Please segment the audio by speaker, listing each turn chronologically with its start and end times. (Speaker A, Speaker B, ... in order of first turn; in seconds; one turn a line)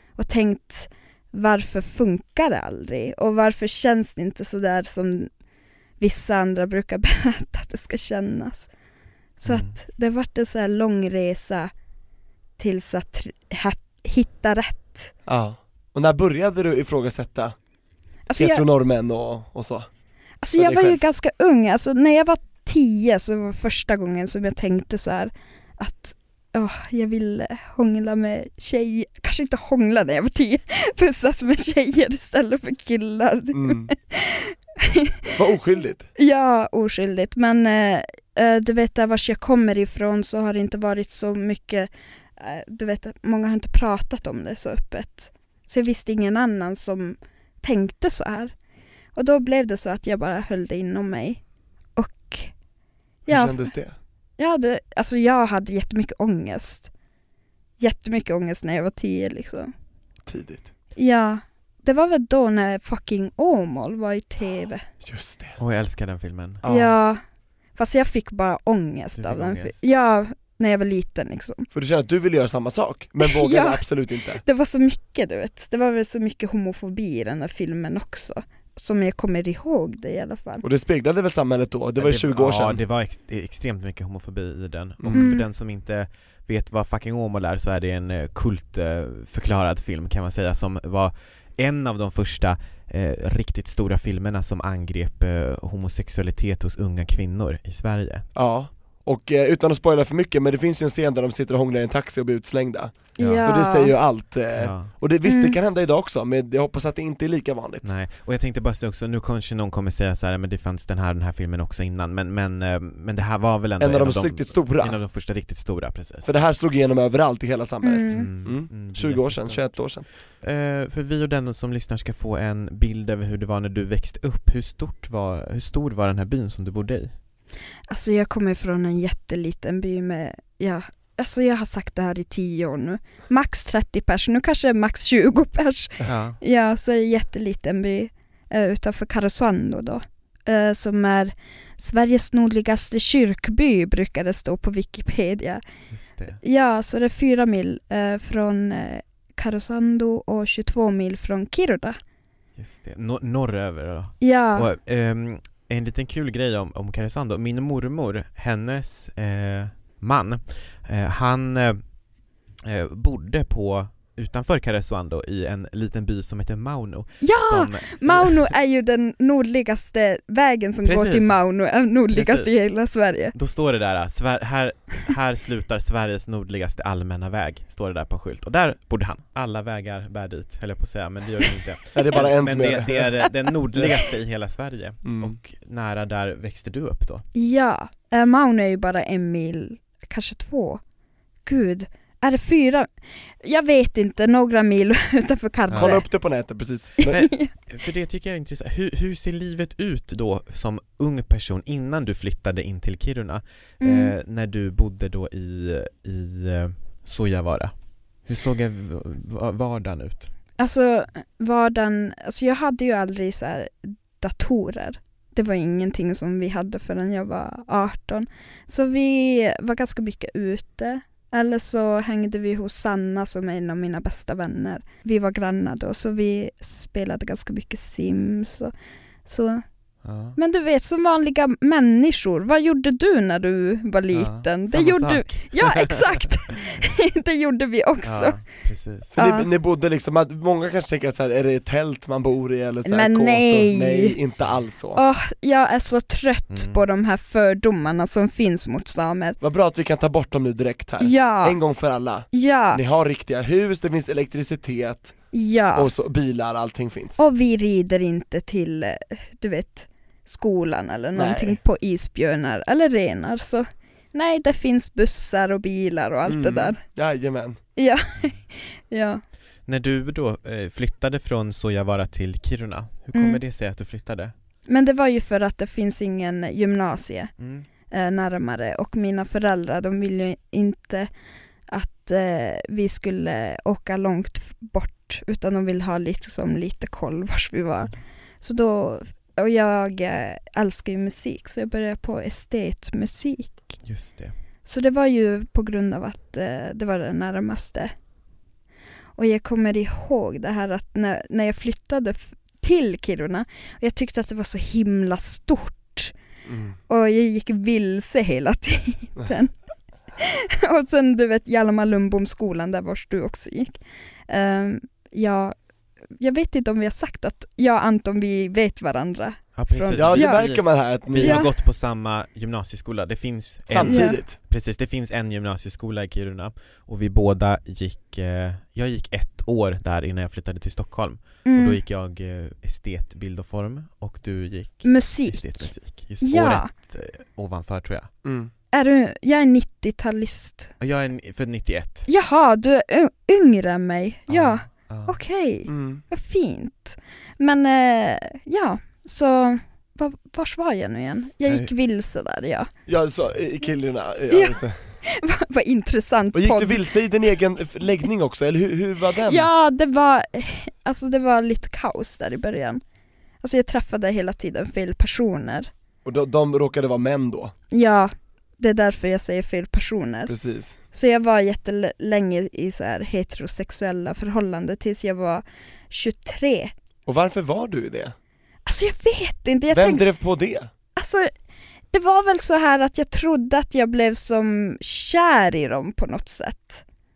Speaker A: 0.2-5.3
Speaker A: 6.0-8.7
Speaker A: 9.4-11.7
Speaker B: 9.4-9.7
Speaker A: 12.6-15.1
Speaker C: 15.2-17.5
Speaker A: 18.3-18.6
Speaker C: 18.4-19.9
Speaker A: 20.4-35.2
Speaker C: 20.6-21.0
Speaker C: 33.5-33.9
Speaker C: 35.4-36.1
Speaker A: 36.2-48.5
Speaker A: 49.1-51.4
Speaker A: 52.0-52.5
Speaker A: 53.3-53.7
Speaker C: 53.3-54.0
Speaker A: 54.4-56.9
Speaker A: 57.8-59.7
Speaker C: 60.2-60.7
Speaker A: 61.0-64.8
Speaker C: 65.0-65.6
Speaker B: 65.6-66.6
Speaker C: 66.6-66.9
Speaker A: 66.7-67.2
Speaker A: 67.8-71.7
Speaker B: 69.2-69.8
Speaker C: 71.7-74.4
Speaker A: 73.2-73.9
Speaker A: 74.4-80.6
Speaker C: 80.6-82.8
Speaker B: 82.0-98.2
Speaker C: 85.0-85.3
Speaker A: 85.1-85.4
Speaker C: 98.3-107.9
Speaker A: 103.2-103.9
Speaker B: 103.2-103.4
Speaker B: 104.5-104.9
Speaker A: 105.2-105.6
Speaker B: 107.8-116.3
Speaker C: 113.8-115.0
Speaker C: 116.2-120.0
Speaker A: 117.8-118.3
Speaker B: 118.1-119.8
Speaker B: 120.4-127.1
Speaker A: 127.9-145.6
Speaker B: 136.0-136.4
Speaker B: 145.9-146.4
Speaker A: 146.4-152.0
Speaker B: 152.6-161.8
Speaker A: 154.2-154.7
Speaker B: 162.6-168.5
Speaker A: 167.2-173.3
Speaker B: 170.8-171.4
Speaker B: 172.1-172.5
Speaker B: 173.3-187.2
Speaker C: 181.9-184.0
Speaker C: 185.0-185.3
Speaker A: 187.3-190.8
Speaker A: 191.4-192.9
Speaker A: 193.4-196.1
Speaker B: 195.7-196.0
Speaker C: 195.7-197.2
Speaker A: 197.0-197.5
Speaker B: 197.1-207.7
Speaker A: 203.8-204.1
Speaker B: 208.3-210.3
Speaker A: 210.6-228.7
Speaker A: 229.2-229.6
Speaker B: 230.0-230.4
Speaker A: 230.3-238.4
Speaker B: 234.1-236.9
Speaker B: 238.0-239.2
Speaker A: 239.2-239.5
Speaker C: 239.2-245.0
Speaker A: 242.8-244.2
Speaker A: 244.9-249.4
Speaker B: 246.5-246.8
Speaker C: 249.4-255.1
Speaker A: 251.0-251.6
Speaker A: 252.3-252.8
Speaker A: 255.3-255.9
Speaker C: 255.8-257.2
Speaker A: 257.2-266.8
Speaker C: 261.1-261.6
Speaker C: 266.2-267.6
Speaker A: 267.8-269.2
Speaker B: 269.7-274.3
Speaker A: 273.1-273.4
Speaker A: 274.7-277.3
Speaker B: 277.4-277.6
Speaker A: 277.9-281.1
Speaker A: 281.7-293.8
Speaker B: 293.8-294.3
Speaker A: 294.6-297.9
Speaker A: 299.2-306.1
Speaker C: 306.5-306.8
Speaker A: 306.9-309.5
Speaker A: 310.2-313.8
Speaker A: 314.3-315.5
Speaker A: 316.2-320.4
Speaker B: 319.6-338.1
Speaker C: 319.9-321.4
Speaker A: 321.2-321.5
Speaker C: 323.7-324.4
Speaker A: 323.8-324.2
Speaker A: 331.5-331.8
Speaker A: 334.8-335.7
Speaker A: 336.2-336.7
Speaker C: 338.2-338.5
Speaker A: 338.7-340.7
Speaker B: 340.8-342.1
Speaker A: 342.1-352.7
Speaker B: 344.3-345.2
Speaker C: 345.7-346.0
Speaker B: 351.5-351.7
Speaker C: 352.9-354.8
Speaker A: 354.3-357.0
Speaker C: 356.3-359.5
Speaker A: 359.2-362.8
Speaker A: 363.4-365.7
Speaker C: 366.0-367.5
Speaker A: 367.7-370.3
Speaker C: 370.3-370.8
Speaker A: 370.9-376.7
Speaker C: 377.1-378.1
Speaker A: 378.6-380.0
Speaker C: 379.7-380.7
Speaker A: 381.0-381.3
Speaker A: 381.9-386.8